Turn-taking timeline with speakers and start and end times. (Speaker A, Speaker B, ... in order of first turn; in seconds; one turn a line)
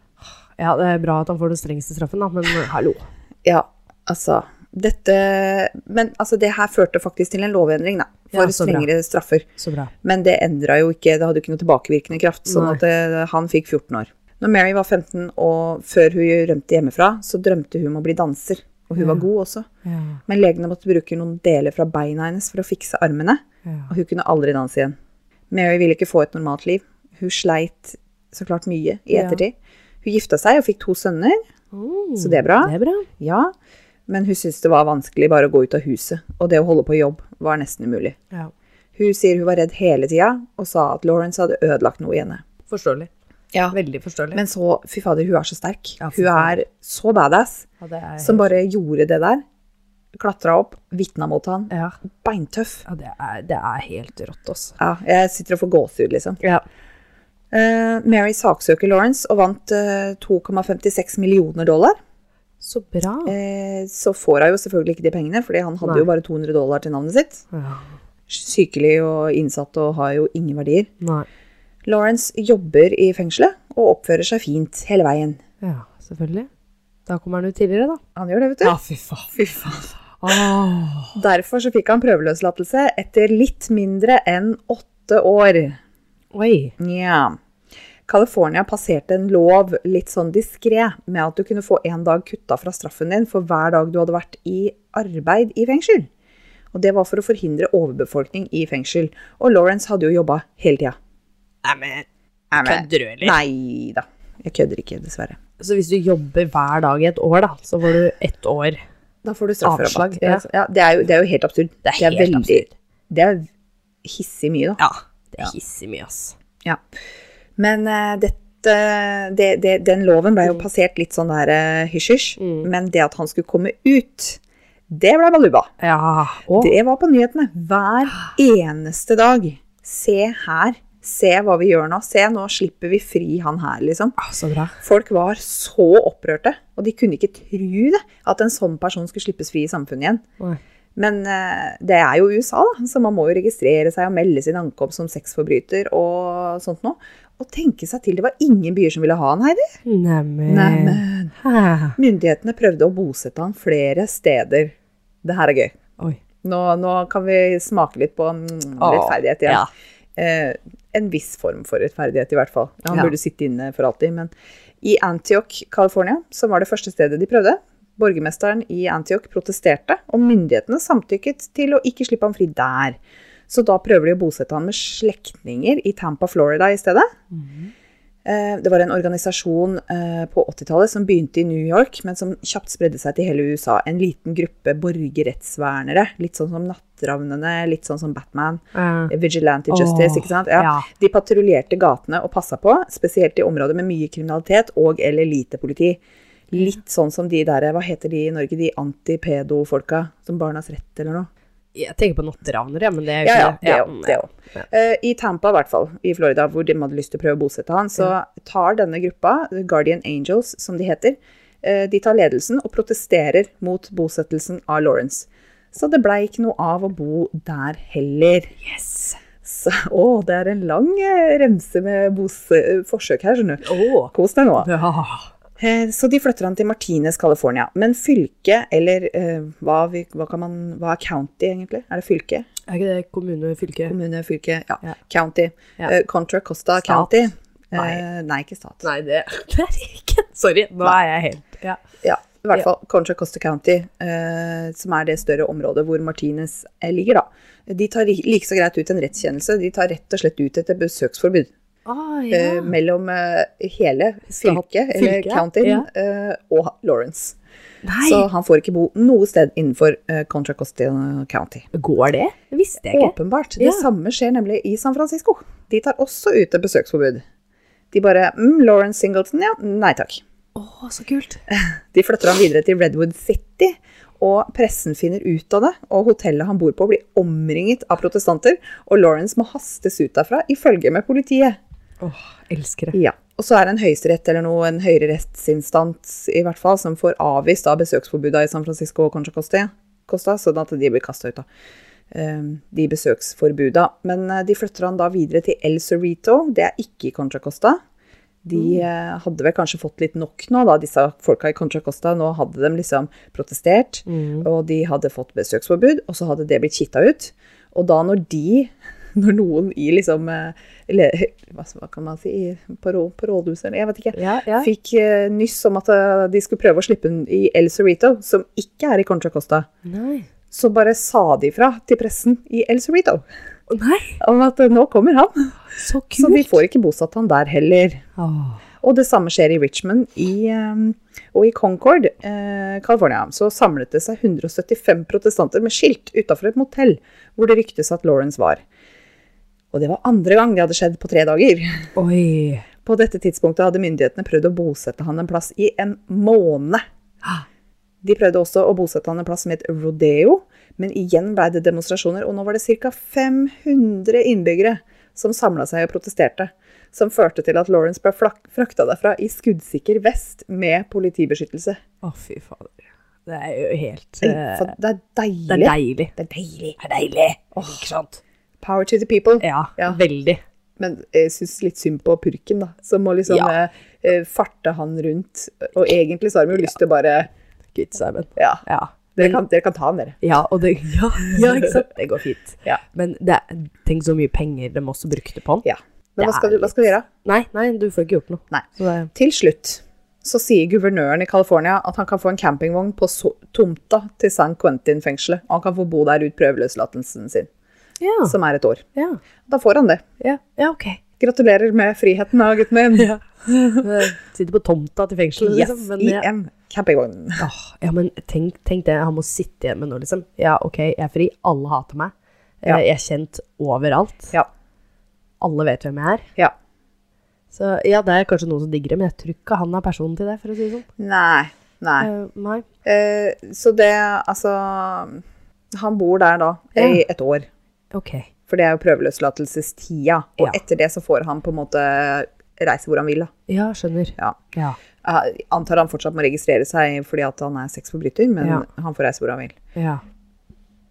Speaker A: 0.6-3.0
Speaker B: 3.4-9.5
Speaker A: 8.3-8.9
Speaker A: 9.6-9.9
Speaker B: 10.0-19.7
Speaker A: 12.5-12.8
Speaker A: 18.9-19.2
Speaker A: 19.8-20.2
Speaker B: 20.3-24.9
Speaker B: 25.5-31.4
Speaker A: 29.1-29.4
Speaker A: 31.7-33.1
Speaker B: 32.2-33.5
Speaker B: 34.1-38.2
Speaker B: 39.0-42.4
Speaker A: 42.7-43.1
Speaker A: 43.7-44.4
Speaker B: 44.3-47.7
Speaker A: 46.0-46.6
Speaker A: 47.8-48.5
Speaker B: 48.2-49.4
Speaker B: 50.2-52.8
Speaker A: 51.7-52.0
Speaker A: 52.9-54.8
Speaker B: 54.8-56.4
Speaker B: 57.5-62.0
Speaker A: 62.6-63.3
Speaker B: 63.2-67.4
Speaker A: 67.5-67.9
Speaker B: 68.3-70.9
Speaker A: 71.0-71.3
Speaker B: 71.8-75.4
Speaker A: 75.6-76.5
Speaker A: 77.1-78.0
Speaker B: 78.2-78.8
Speaker A: 78.6-81.1
Speaker B: 79.3-79.9
Speaker B: 81.1-85.8
Speaker A: 86.3-86.7
Speaker B: 86.8-87.4
Speaker B: 88.1-96.1
Speaker B: 96.7-101.0
Speaker A: 101.6-102.0
Speaker B: 102.5-105.4
Speaker A: 102.6-103.4
Speaker A: 105.6-108.8
Speaker B: 109.2-113.5
Speaker A: 109.6-110.4
Speaker A: 111.8-112.7
Speaker B: 114.0-114.8
Speaker A: 114.8-116.3
Speaker B: 117.6-125.7
Speaker A: 122.4-122.7
Speaker A: 125.8-126.7
Speaker B: 126.5-134.2
Speaker A: 134.2-134.8
Speaker B: 134.8-140.2
Speaker B: 140.9-149.8
Speaker A: 149.8-152.0
Speaker B: 150.5-151.3
Speaker B: 152.0-155.8
Speaker B: 156.4-164.3
Speaker A: 158.8-159.7
Speaker B: 164.8-173.0
Speaker B: 173.5-177.1
Speaker A: 177.3-177.7
Speaker B: 178.2-196.0
Speaker A: 188.7-189.1
Speaker A: 189.7-190.9
Speaker B: 196.5-201.3
Speaker A: 201.7-204.6
Speaker B: 203.2-218.5
Speaker A: 218.6-219.2
Speaker B: 219.4-224.7
Speaker A: 223.6-225.3
Speaker B: 225.6-232.4
Speaker A: 232.7-233.9
Speaker B: 233.9-238.8
Speaker A: 236.8-237.1
Speaker A: 237.7-238.0
Speaker A: 238.8-241.8
Speaker B: 242.0-251.5
Speaker A: 251.8-252.7
Speaker B: 252.3-257.4
Speaker A: 254.3-255.9
Speaker A: 257.8-258.3
Speaker B: 258.0-261.6
Speaker A: 261.7-263.8
Speaker B: 262.8-267.2
Speaker B: 267.9-270.2
Speaker A: 270.5-271.4
Speaker B: 271.5-281.6
Speaker A: 282.0-282.9
Speaker B: 282.9-291.4
Speaker B: 292.1-297.8
Speaker B: 298.4-319.7
Speaker A: 298.5-298.8
Speaker A: 304.1-304.5
Speaker A: 314.1-314.7
Speaker A: 319.8-320.3
Speaker B: 320.5-323.2
Speaker A: 323.7-324.2
Speaker B: 324.2-325.6
Speaker A: 325.7-326.6
Speaker B: 326.2-328.0
Speaker A: 328.2-328.6
Speaker B: 328.8-338.6
Speaker B: 339.7-341.9
Speaker A: 341.9-342.6
Speaker B: 342.8-346.8
Speaker B: 348.0-361.8
Speaker A: 362.0-364.7
Speaker B: 364.2-366.8
Speaker A: 365.5-366.1
Speaker A: 366.8-368.2
Speaker B: 367.5-367.9
Speaker B: 368.6-370.0
Speaker A: 369.4-370.4
Speaker B: 370.8-377.3
Speaker A: 373.3-373.5
Speaker A: 377.7-379.4
Speaker B: 378.4-378.6
Speaker B: 379.1-380.2
Speaker A: 380.2-385.6
Speaker B: 385.6-387.1
Speaker A: 386.2-386.7
Speaker A: 387.2-389.1
Speaker B: 388.5-397.5
Speaker A: 398.0-398.4
Speaker B: 398.2-398.8
Speaker A: 398.9-399.2
Speaker B: 399.5-400.0
Speaker A: 400.2-401.0
Speaker B: 401.2-404.1
Speaker A: 403.8-406.2
Speaker B: 405.4-407.5
Speaker A: 407.4-414.3
Speaker A: 415.4-416.3
Speaker A: 417.5-420.9
Speaker B: 421.0-422.1
Speaker A: 422.0-422.6
Speaker B: 422.8-425.2
Speaker B: 425.7-427.5
Speaker A: 426.8-427.0
Speaker A: 427.9-428.3
Speaker B: 428.5-433.3
Speaker A: 433.5-434.8
Speaker B: 435.0-439.6
Speaker A: 439.7-440.0